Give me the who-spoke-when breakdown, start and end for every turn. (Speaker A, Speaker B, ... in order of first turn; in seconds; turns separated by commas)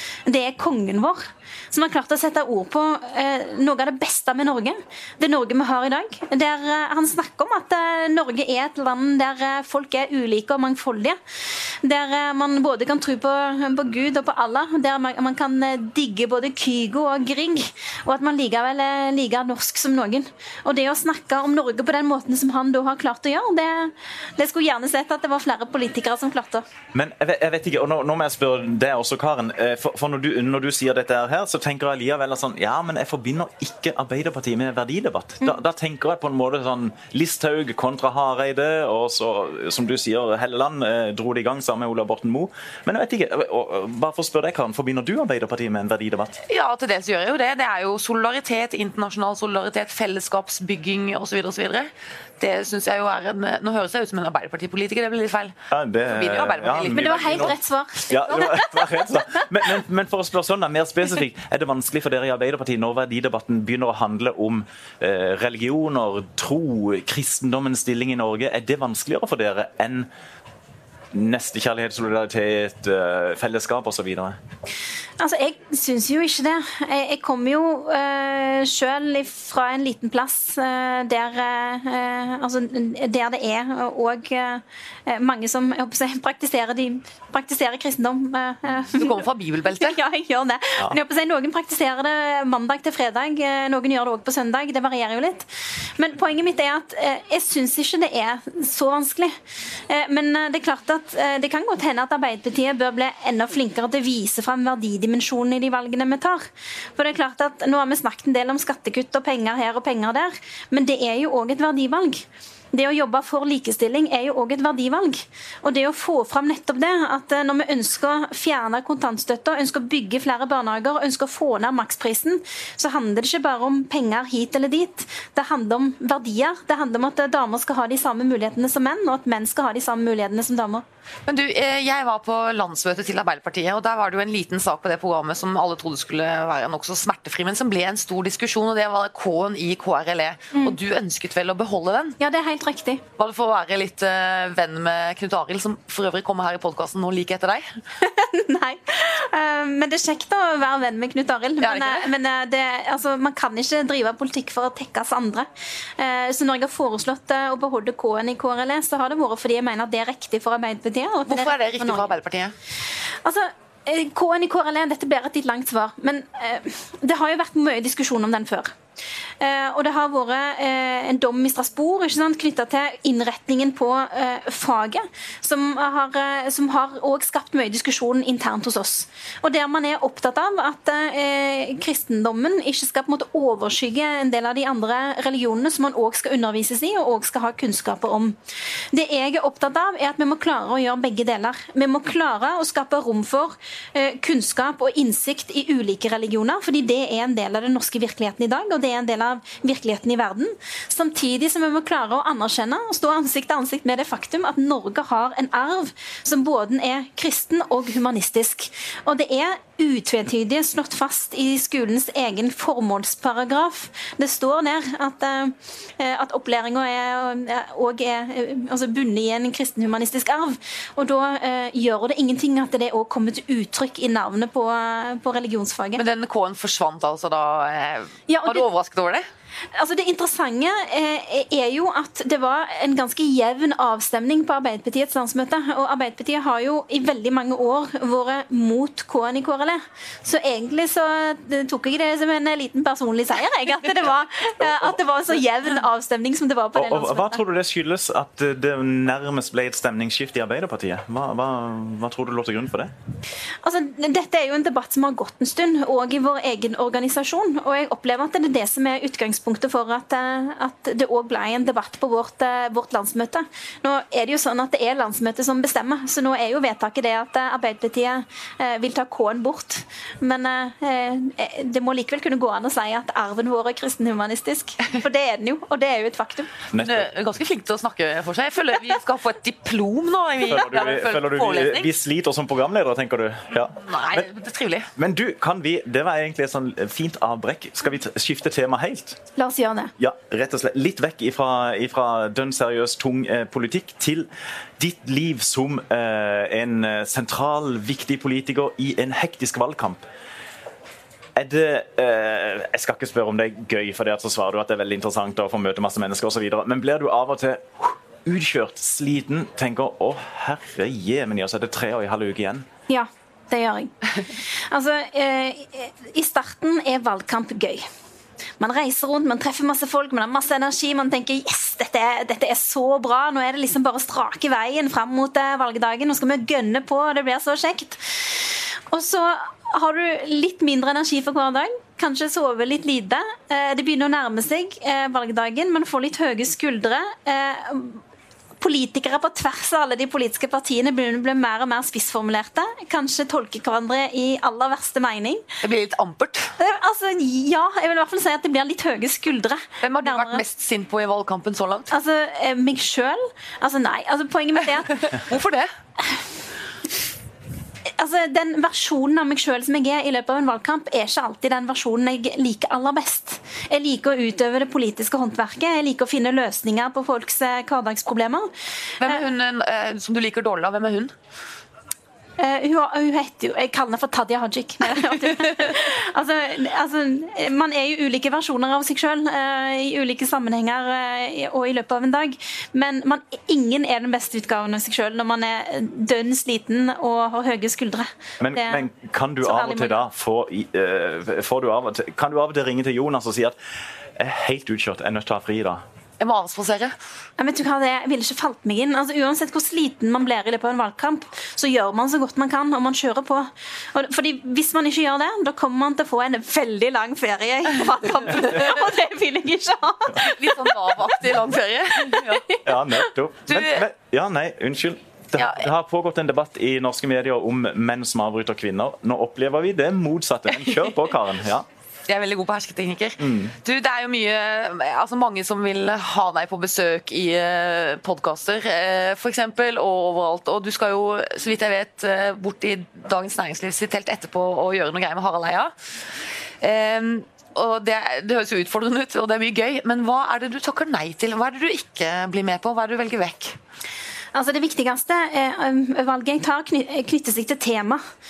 Speaker A: 0.2-26.6, Speaker B: 26.9-46.4, Speaker C: 46.5-55.5, Speaker B: 55.7-57.6, Speaker C: 56.1-57.5, Speaker A: 56.9-58.6, Speaker B: 58.1-70.1, Speaker C: 58.2-58.6, Speaker B: 71.1-74.4, Speaker A: 75.2-99.3, Speaker C: 89.0-90.0, Speaker A: 99.9-106.5, Speaker A: 107.0-130.8, Speaker C: 131.3-142.2, Speaker A: 142.2-143.0, Speaker C: 143.2-147.8, Speaker A: 148.0-162.1, Speaker C: 151.6-152.1, Speaker C: 161.3-162.5, Speaker A: 163.2-168.7, Speaker A: 169.4-188.4, Speaker A: 188.9-226.0, Speaker C: 226.0-229.3, Speaker A: 228.3-228.7, Speaker A: 229.7-247.4, Speaker B: 244.6-245.0, Speaker B: 246.8-252.9, Speaker A: 253.6-276.5, Speaker B: 276.7-277.1, Speaker C: 276.8-281.9, Speaker B: 280.5-284.3, Speaker C: 283.8-284.9, Speaker B: 284.9-289.2, Speaker A: 289.4-289.9, Speaker B: 290.0-294.3, Speaker B: 294.8-300.1, Speaker B: 301.4-312.7, Speaker A: 312.9-317.9, Speaker A: 318.6-338.0, Speaker A: 338.6-345.4, Speaker C: 345.6-346.6, Speaker A: 346.6-350.4, Speaker C: 349.8-351.9, Speaker A: 351.9-355.2, Speaker C: 355.1-355.7, Speaker A: 358.0-368.5, Speaker C: 369.0-371.1, Speaker A: 372.4-388.9, Speaker B: 388.4-393.6, Speaker A: 389.4-390.1, Speaker B: 394.1-395.8, Speaker C: 396.2-396.9, Speaker A: 397.4-411.1, Speaker C: 410.2-412.6, Speaker A: 412.1-412.6, Speaker B: 412.6-421.6, Speaker C: 413.5-413.9, Speaker C: 415.4-415.7, Speaker C: 422.1-435.7, Speaker B: 423.2-423.6, Speaker C: 436.6-443.6, Speaker A: 444.3-448.0